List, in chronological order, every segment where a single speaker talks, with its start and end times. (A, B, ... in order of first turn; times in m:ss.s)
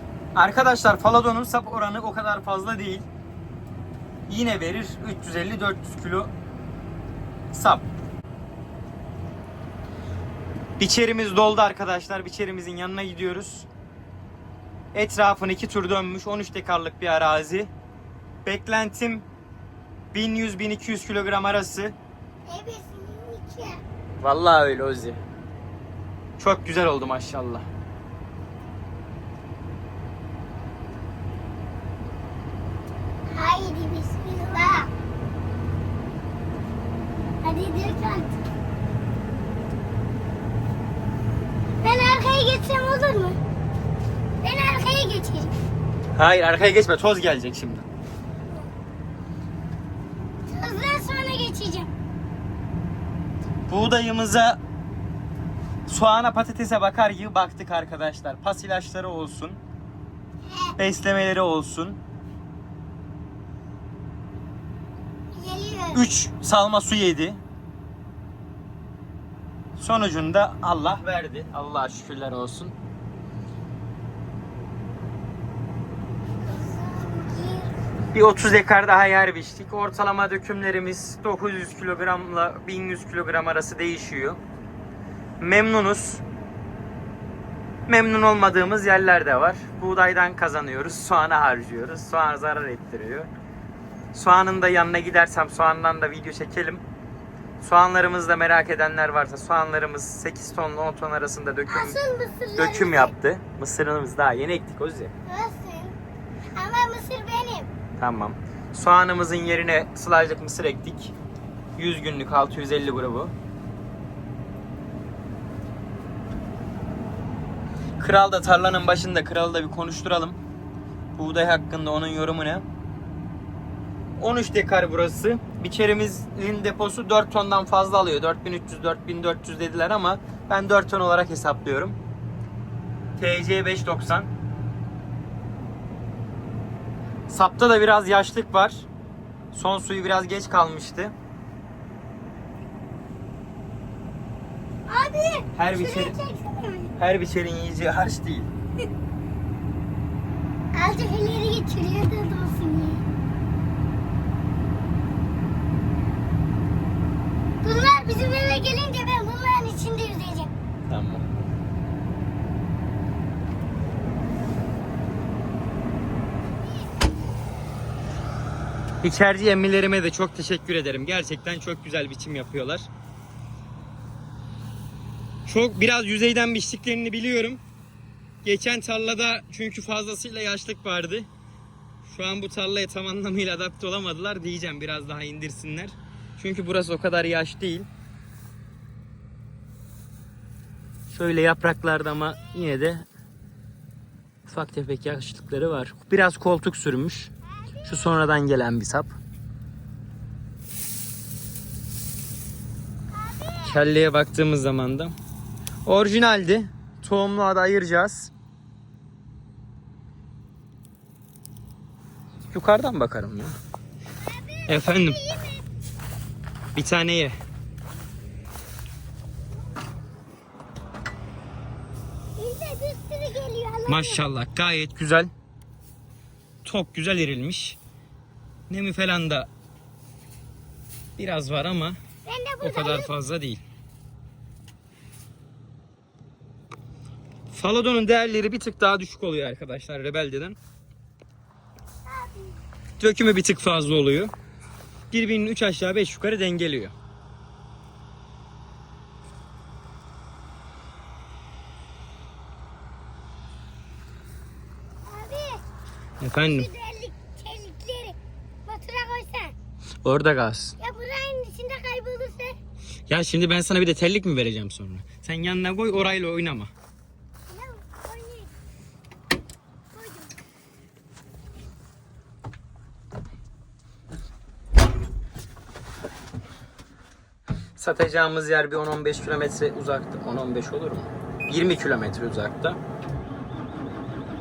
0:00.3-0:03.0 A
0:04.3-0:06.3 A
0:07.5-0:07.8 A
0:10.8-0:13.7 A
0:14.9-0:17.7 A
0:18.4-0:19.3 A
0:20.1-0:21.9 A
0:22.5-0:23.8 B
0:24.2-0:25.2 A
0:26.4-0:27.7 A
0:33.3-0:34.9 B
0:37.4-0:38.3 B
0:41.8-0:43.4 B
0:44.4-0:45.5 B
0:46.2-0:47.8 A
0:50.5-0:51.9 B
0:53.7-0:54.6 A
0:55.9-0:59.6 A
1:00.8-1:02.0 A
1:05.3-1:06.0 B
1:05.9-1:07.4 A
1:09.8-1:12.8 A
1:16.4-1:17.7 B
1:18.1-1:24.4 A
1:25.4-1:26.2 A
1:27.9-1:33.3 A
1:34.1-1:36.8 A
1:37.6-1:42.0 A
1:41.7-1:43.1 B
1:42.5-1:45.1 A
1:45.3-1:45.9 B
1:46.5-1:47.7 B
1:48.0-1:51.1 A
1:51.8-1:53.3 A
1:58.0-2:00.4 A
2:01.2-2:02.6 A
2:04.2-2:12.0 A
2:13.2-2:14.3 A
2:17.3-2:18.8 A
2:19.5-2:21.1 A
2:24.9-2:26.9 B
2:25.6-2:26.2 A
2:27.0-2:28.5 A
2:30.7-2:33.0 B
2:37.6-2:40.5 B
2:40.9-2:41.2 A
2:49.0-2:52.9 A
2:55.4-2:57.6 A
2:58.4-3:01.3 A
3:02.0-3:07.9 A
3:11.1-3:13.0 A
3:14.4-3:19.2 A
3:23.1-3:23.7 B
3:23.6-3:25.1 A
3:25.8-3:28.3 A
3:32.5-3:33.5 A
3:34.2-3:35.6 B
3:34.7-3:35.2 A
3:36.7-3:37.4 A
3:42.4-3:44.2 B
3:43.9-3:45.3 A
3:46.6-3:47.8 A
3:48.7-3:49.5 A
3:51.2-3:52.0 A
3:52.2-3:53.1 B
3:52.6-3:53.6 A
3:57.5-4:00.6 A
4:02.1-4:02.5 B
4:03.0-4:04.3 A
4:05.1-4:06.9 A
4:15.0-4:15.6 B
4:16.2-4:16.7 A
4:16.4-4:19.5 B
4:20.0-4:20.8 A
4:20.8-4:22.6 B
4:23.1-4:26.7 A
4:27.5-4:28.5 B
4:29.9-4:30.3 B
4:37.8-4:42.8 A